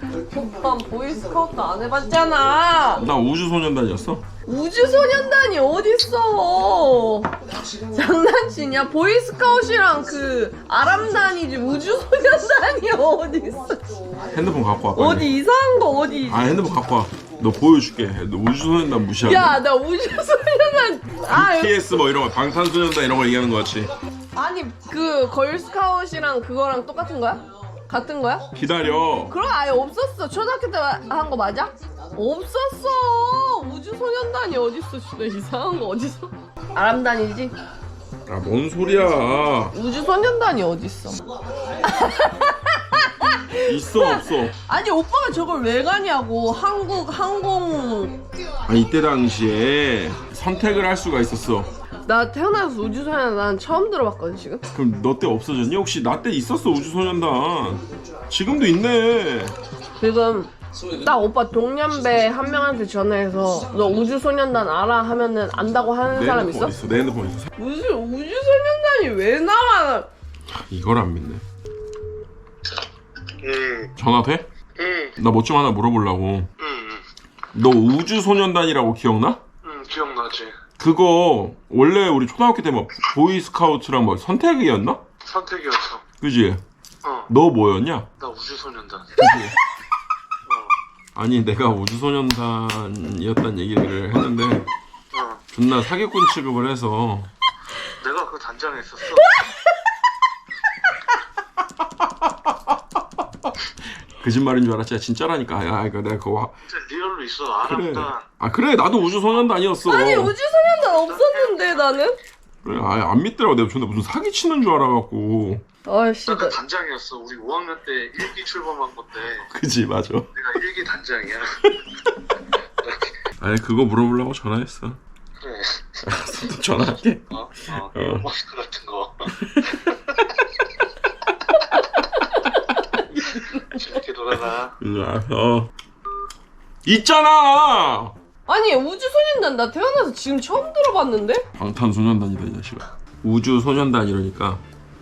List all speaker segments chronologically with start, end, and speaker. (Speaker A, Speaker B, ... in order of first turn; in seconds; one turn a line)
Speaker A: 0.2-3.0
Speaker B: 3.0-4.2
Speaker A: 4.5-7.3
Speaker A: 7.9-13.8
Speaker B: 14.3-15.3
Speaker A: 14.9-16.5
Speaker B: 16.3-19.6
Speaker A: 19.2-21.8
Speaker B: 21.3-23.9
Speaker A: 24.3-28.5
Speaker B: 28.5-29.3
Speaker A: 29.3-37.6
Speaker B: 38.3-39.7
Speaker A: 39.7-41.2
Speaker A: 41.8-48.2
Speaker B: 43.7-44.6
Speaker B: 48.7-51.7
Speaker A: 52.1-54.6
Speaker B: 54.7-59.5
Speaker A: 60.0-66.8
Speaker B: 66.1-67.5
Speaker A: 67.6-70.1
Speaker B: 70.5-71.4
Speaker C: 73.4-73.9
Speaker B: 74.0-74.5
Speaker C: 74.8-75.2
Speaker B: 75.2-76.5
Speaker C: 76.6-77.0
Speaker B: 77.5-79.4
Speaker C: 79.6-80.5
Speaker B: 80.8-85.0
Speaker C: 85.2-86.0
Speaker B: 86.2-86.6
Speaker C: 87.0-87.3
Speaker B: 87.3-88.1
Speaker C: 88.2-89.2
Speaker B: 89.2-89.5
Speaker B: 91.2-94.7
Speaker C: 95.1-95.4
Speaker B: 95.5-97.3
Speaker C: 98.0-99.3
Speaker B: 104.1-106.5
Speaker C: 106.7-108.2
Speaker B: 107.6-110.3
Speaker A: 109.8-112.2
Speaker C: 110.9-112.0
Speaker B: 112.6-115.6
Speaker A: 115.9-116.6
Speaker C: 116.3-119.5
Speaker B: 119.4-120.3
Speaker C: 120.4-121.6
Speaker B: 123.4-125.0
Speaker C: 125.4-126.0
Speaker B: 126.0-128.3
Speaker C: 127.3-129.3
Speaker B: 129.3-130.4
Speaker B: 132.9-133.8
Speaker C: 133.7-134.7
Speaker B: 134.8-135.7
Speaker B: 136.8-138.1
Speaker A: 138.5-141.4
Speaker B: 141.6-144.6